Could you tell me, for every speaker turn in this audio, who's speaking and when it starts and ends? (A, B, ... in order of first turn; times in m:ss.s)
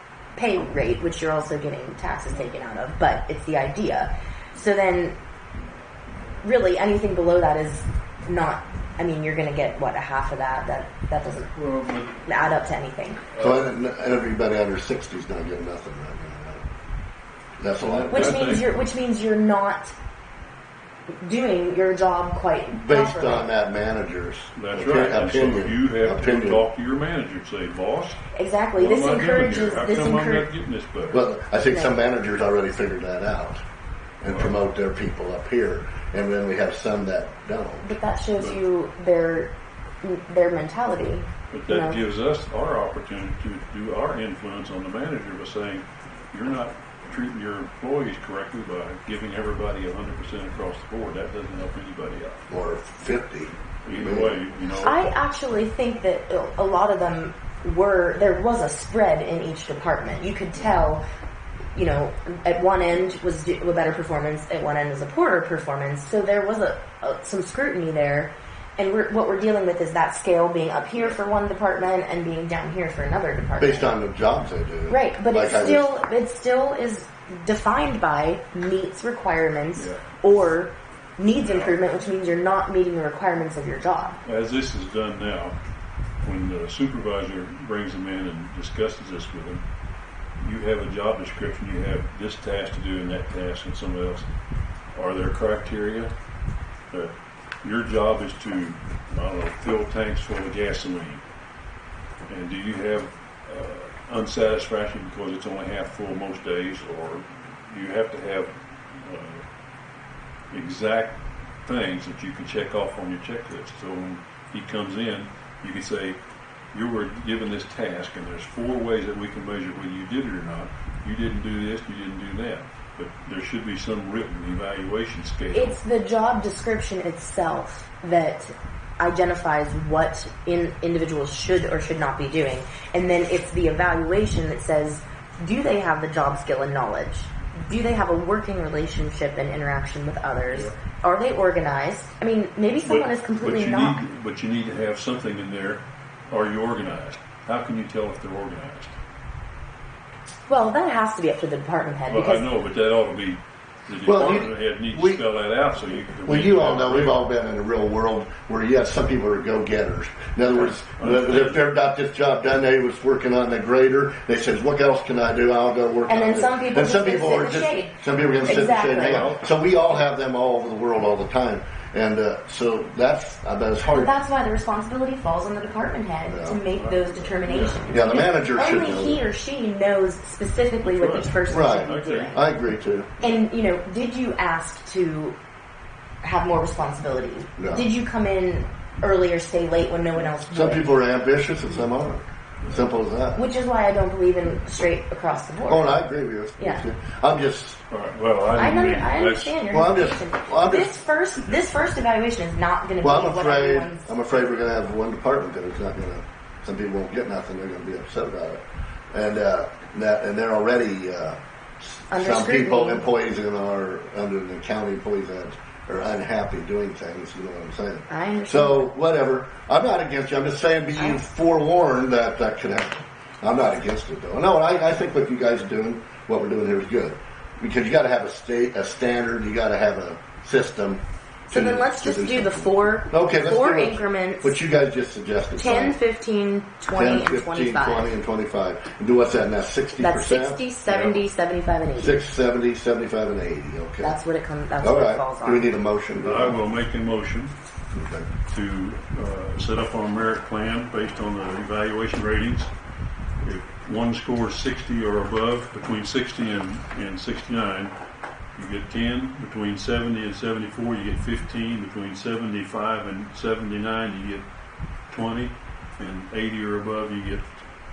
0:00.3-0:05.2 A
0:06.4-0:11.5 A
0:11.5-0:12.4 B
0:12.2-0:13.2 A
0:13.3-0:13.7 B
0:13.4-0:16.6 C
0:17.6-0:18.5 C
0:17.8-0:18.7 B
0:18.1-0:19.9 A
0:21.1-0:23.5 A
0:22.7-0:26.6 C
0:24.6-0:28.2 B
0:28.3-0:30.5 A
0:28.7-0:31.2 B
0:31.1-0:33.6 C
0:31.6-0:32.0 A
0:34.2-0:37.9 C
0:37.8-0:42.0 A
0:41.5-0:52.4 B
0:52.5-0:54.4 C
0:53.8-0:55.1 B
0:54.8-1:01.0 A
1:01.7-1:14.0 A
1:13.6-1:15.9 C
1:14.9-1:24.2 A
1:19.8-1:20.0 B
1:21.4-1:21.8 B
1:24.2-1:25.6 B
1:26.2-1:29.6 B
1:30.4-1:34.3 B
1:34.9-1:36.1 B
1:36.9-1:41.2 B
1:42.3-1:49.4 B
1:50.5-1:56.2 B
1:56.7-2:05.8 B
2:05.5-2:24.0 A
2:22.8-2:29.0 B
2:30.5-2:32.5 A
2:32.1-2:37.2 B
2:34.0-2:35.2 C
2:36.2-2:54.1 C
2:40.5-2:41.6 B
2:46.1-2:49.3 A
2:48.9-2:49.8 B
2:53.9-3:02.4 A
2:56.3-2:56.6 C
2:56.7-2:57.9 B
2:57.9-2:59.2 C
3:00.8-3:02.4 B
3:01.5-3:03.1 C
3:03.2-3:05.4 A
3:06.2-3:10.9 A
3:07.6-3:07.8 C
3:10.5-3:13.4 C
3:13.3-3:15.9 A
3:15.7-3:17.8 C
3:16.6-3:16.8 A
3:17.9-3:19.6 B
3:18.5-3:24.1 A
3:19.7-3:21.0 C
3:23.0-3:56.0 C
3:32.1-3:33.0 A
3:38.1-3:38.9 A
3:41.0-3:41.2 A
3:51.5-3:54.6 A
3:55.6-3:58.1 A
3:56.9-4:00.6 C
4:00.0-4:02.2 A
4:00.9-4:01.2 B
4:02.0-4:04.2 C
4:04.0-4:05.7 A
4:04.8-4:06.6 C
4:06.2-4:07.5 B
4:07.9-4:08.3 C
4:08.5-4:12.7 B
4:13.4-4:17.9 B
4:18.6-4:24.4 B
4:25.1-4:27.5 B